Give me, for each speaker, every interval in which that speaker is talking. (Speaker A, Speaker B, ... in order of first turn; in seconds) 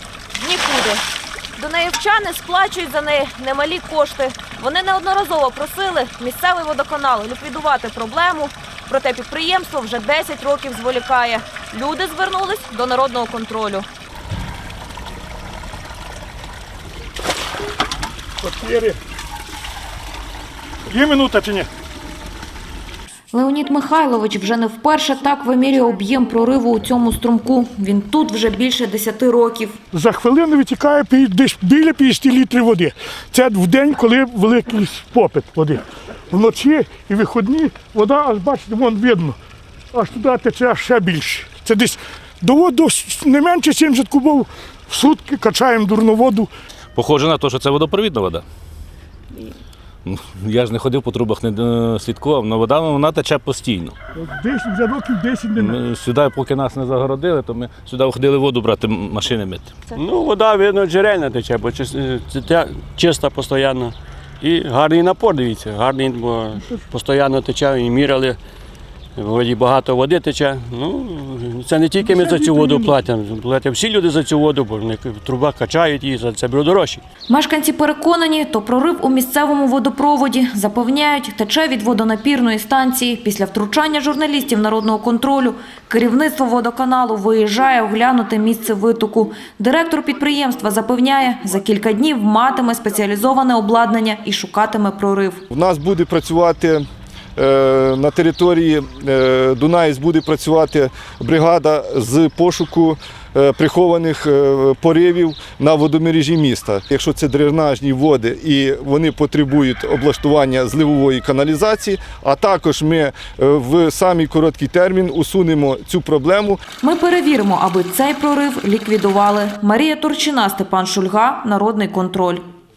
Speaker A: 0.3-1.0, 1.6-13.9, 23.3-29.8, 77.3-95.4, 116.8-122.4
Speaker B: 18.4-19.0, 20.9-21.7, 29.9-39.4, 39.9-46.5, 54.1-55.8, 72.0-72.9
Speaker C: 46.9-48.4, 50.0-53.9, 55.6-59.8
Speaker D: 59.9-68.4, 69.2-77.0
Speaker E: 95.5-96.8, 97.4-116.6